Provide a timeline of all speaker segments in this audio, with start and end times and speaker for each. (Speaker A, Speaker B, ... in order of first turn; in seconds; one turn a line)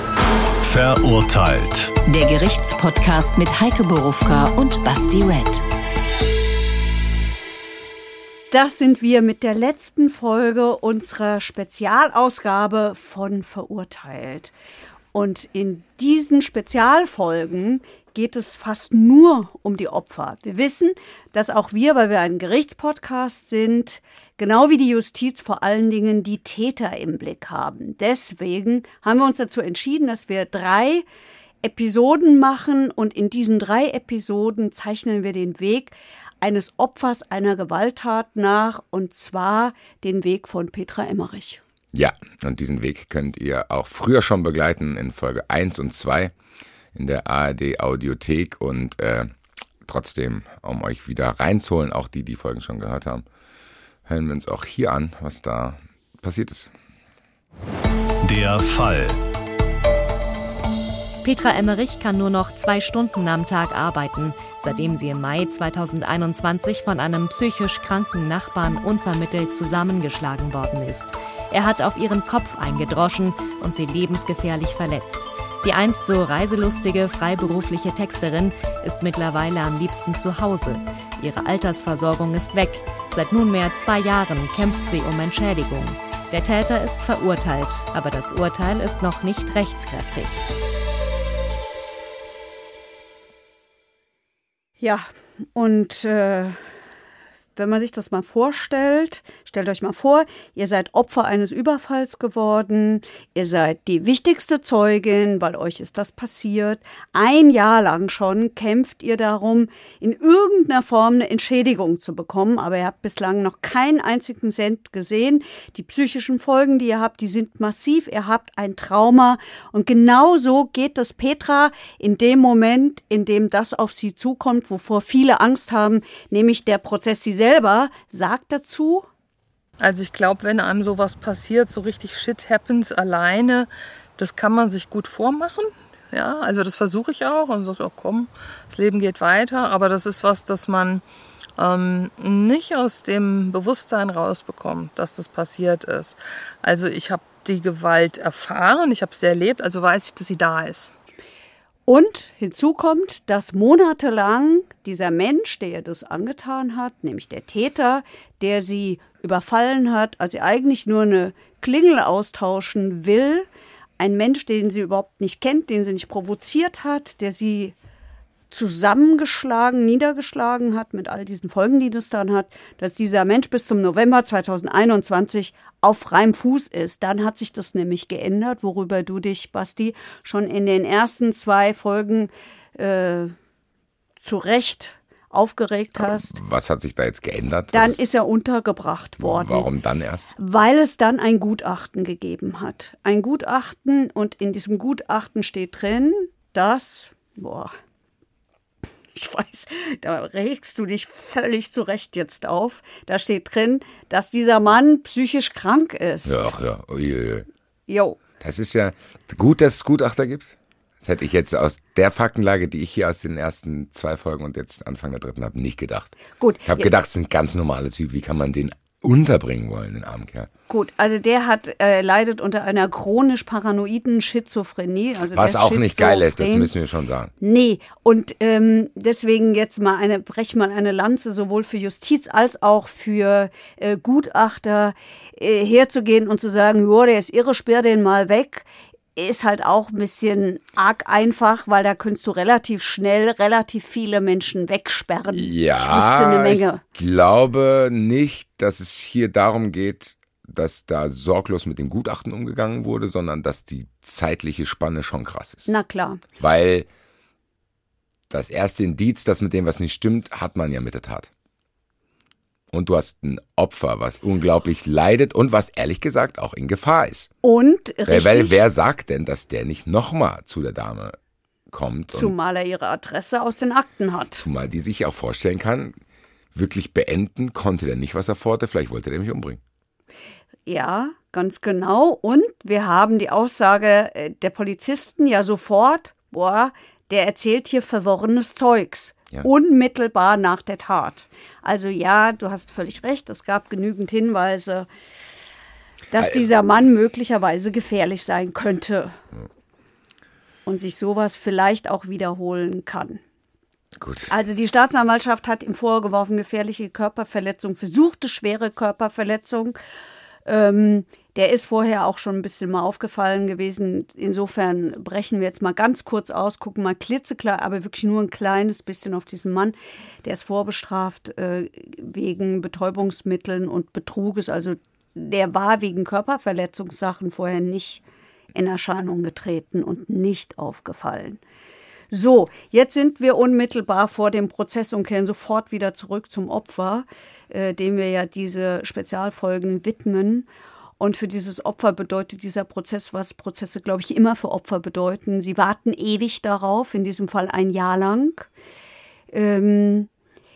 Speaker A: 0.6-2.0
Speaker B: 2.0-5.6
Speaker C: 8.5-14.5
Speaker C: 15.1-31.0
Speaker C: 31.6-41.6
Speaker D: 41.9-46.3
Speaker D: 46.9-49.3
Speaker D: 49.8-53.2
Speaker D: 54.1-56.7
Speaker A: 58.2-59.2
Speaker E: 61.2-90.4
Speaker C: 94.8-96.6
Speaker C: 97.6-129.1
Speaker F: 129.8-141.0
Speaker F: 141.6-150.9
Speaker C: 151.9-163.5
Speaker C: 164.0-167.8
Speaker C: 168.5-183.3
Speaker C: 184.2-186.3
Speaker D: 186.0-188.0
Speaker C: 187.7-189.7
Speaker D: 189.2-190.3
Speaker C: 190.3-197.7
Speaker C: 199.1-206.5
Speaker D: 206.2-207.5
Speaker C: 207.9-208.2
Speaker D: 208.4-220.5
Speaker C: 216.4-216.9
Speaker C: 220.7-226.7
Speaker D: 225.3-227.3
Speaker C: 227.4-246.8
Speaker D: 245.3-255.7
Speaker C: 255.7-256.2
Speaker D: 256.4-256.9
Speaker D: 258.3-261.3
Speaker D: 262.7-267.3
Speaker C: 267.4-268.6
Speaker D: 268.1-271.2
Speaker D: 271.7-272.3
Speaker C: 272.1-274.5
Speaker D: 274.4-276.0
Speaker D: 276.5-279.6
Speaker C: 280.6-294.9
Speaker C: 296.1-299.2
Speaker C: 300.6-303.2
Speaker D: 304.0-304.3
Speaker C: 304.3-309.8
Speaker C: 310.4-328.0
Speaker C: 328.5-331.4
Speaker C: 332.1-340.5
Speaker C: 341.0-348.5
Speaker C: 349.3-350.1